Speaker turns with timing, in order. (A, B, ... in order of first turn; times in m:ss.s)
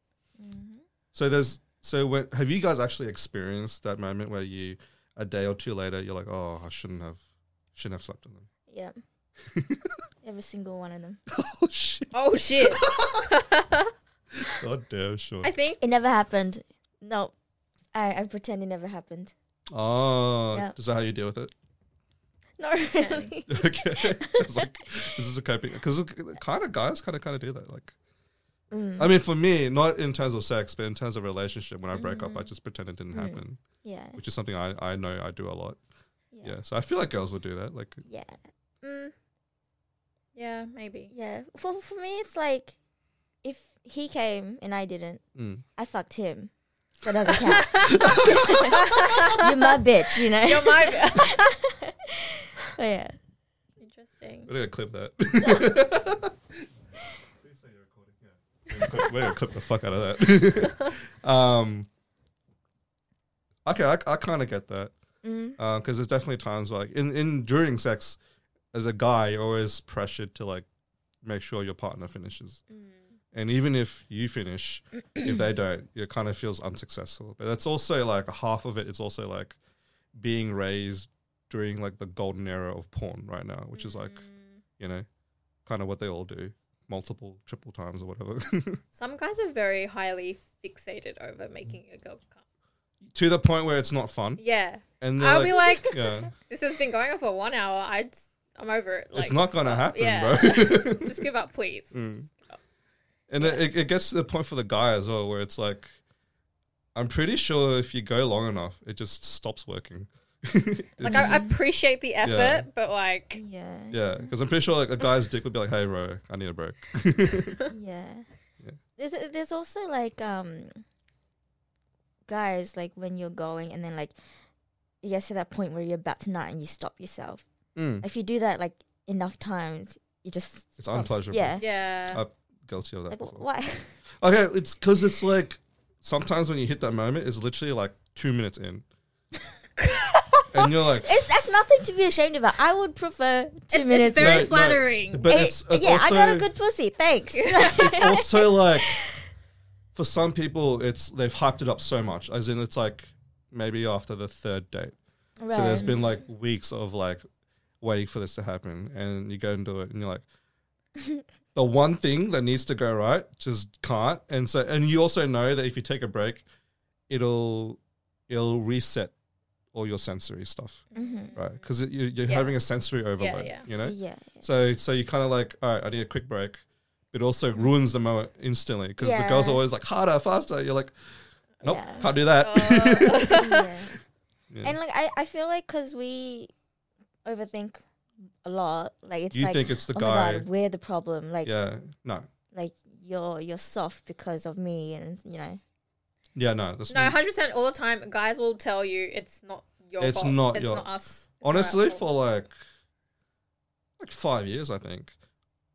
0:00.4-0:00.8 A
0:01.1-0:07.2 B
0:07.7-0:08.5 B
0:08.7-0:09.0 A
0:09.5-0:09.9 B
0:10.2-0:11.2 A
0:11.3-0:13.3 B
0:12.1-0:13.9 C
0:14.4-0:15.5 B
0:15.4-0:15.8 C
0:15.8-0:17.3 A
0:17.9-0:19.3 A
0:19.7-0:21.5 B
0:22.6-0:24.7 A
0:22.9-0:23.3 C
0:23.5-0:27.9 B
0:28.7-0:29.1 A
0:29.0-0:33.6 B
0:31.9-0:32.5 C
0:33.1-0:34.2 A
0:34.2-0:35.8 B
0:36.4-0:38.0 B
0:38.0-0:39.1 A
0:40.3-0:41.1 C
0:41.1-0:42.8 A
0:43.4-0:45.2 A
0:45.3-0:45.6 B
0:45.8-0:53.2 A
0:47.3-0:48.2 C
0:47.9-0:48.5 B
0:48.7-0:51.5 C
0:53.8-0:54.5 C
0:54.5-0:56.4 B
0:57.4-1:01.9 B
1:03.6-1:04.9 B
1:05.2-1:05.6 A
1:05.6-1:08.2 B
1:08.7-1:10.6 B
1:11.2-1:12.6 B
1:12.7-1:13.2 C
1:13.3-1:19.6 B
1:20.2-1:24.2 B
1:23.7-1:24.6 C
1:24.8-1:25.0 B
1:25.6-1:28.8 B
1:28.9-1:32.4 C
1:33.1-1:34.4 B
1:34.4-1:42.6 C
1:35.0-1:36.3 B
1:39.1-1:41.3 B
1:41.9-1:42.3 B
1:43.3-1:45.9 B
1:43.4-1:43.7 C
1:46.9-1:51.4 B
1:51.0-1:53.4 C
1:51.0-1:51.6 A
1:52.2-1:52.6 B
1:53.4-1:54.3 A
1:53.9-1:57.6 B
1:57.7-1:58.3 A
1:59.0-2:00.8 A
2:02.3-2:04.1 A
2:05.0-2:07.4 A
2:07.7-2:08.0 B
2:08.0-2:11.6 A
2:10.8-2:13.4 B
2:11.6-2:12.2 C
2:13.1-2:13.9 A
2:14.2-2:18.8 B
2:19.8-2:20.7 C
2:20.5-2:21.1 B
2:21.0-2:24.5 A
2:23.7-2:25.3 C
2:24.2-2:26.5 B
2:25.3-2:28.5 A
2:27.3-2:28.2 C
2:27.6-2:29.0 B
2:29.9-2:35.0 B
2:35.4-2:36.0 A
2:35.5-2:37.2 B
2:35.7-2:36.0 C
2:37.8-2:40.2 B
2:41.5-2:46.4 B
2:47.1-2:49.1 B
2:49.7-2:50.8 B
2:50.9-2:51.7 C
2:50.9-2:51.4 A
2:51.4-3:00.9 B
2:52.3-2:52.6 C
2:53.2-2:53.6 C
2:53.8-2:54.5 A
2:59.0-2:59.6 A
3:01.6-3:02.1 A
3:01.6-3:03.4 B
3:02.3-3:03.7 C
3:03.2-3:04.0 A
3:04.5-3:04.8 B
3:04.6-3:06.5 A
3:07.2-3:07.8 A
3:08.4-3:11.5 A
3:09.3-3:10.4 B
3:11.4-3:12.3 B
3:12.5-3:15.6 A
3:16.3-3:17.2 B
3:16.9-3:22.0 C
3:20.0-3:20.9 B
3:21.4-3:22.6 B
3:24.0-3:25.1 B